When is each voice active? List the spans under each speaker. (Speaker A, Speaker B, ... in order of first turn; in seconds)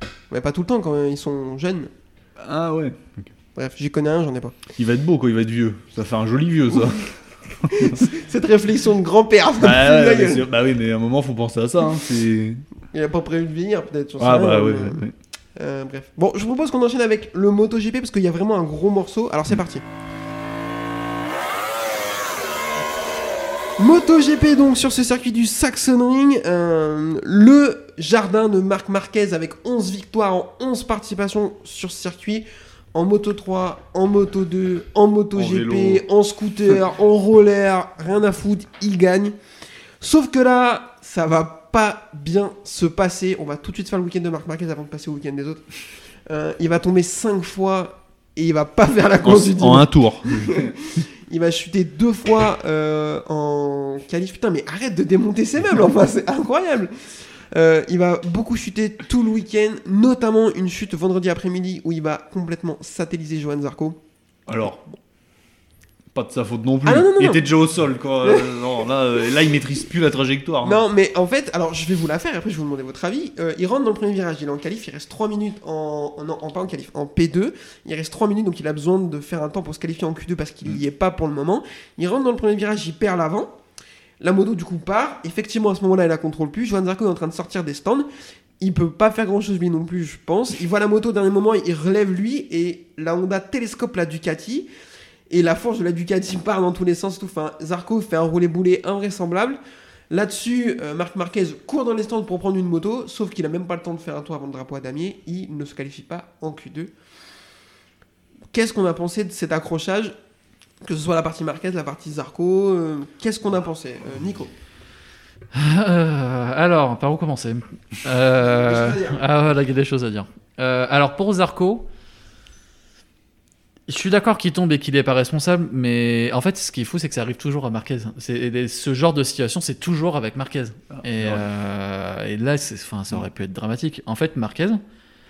Speaker A: 0.3-1.9, 3.5-4.5, 7.7-10.4, 12.9-15.0, 15.6-19.8, 23.8-39.4, 40.0-45.7, 46.3-56.9, 57.5-64.0, 66.8-67.5, 68.2-68.6, 70.6-83.6, 84.2-88.0, 88.6-94.7, 95.3-99.6, 100.1-106.9, 108.5-110.1, 110.8-114.5, 118.4-119.2
Speaker B: 2.4-3.3, 4.8-8.0, 9.6-12.6, 14.2-15.1, 35.3-36.0, 49.2-50.6, 64.5-64.8, 66.1-70.8, 130.9-131.4
Speaker C: 115.5-121.9, 123.9-134.8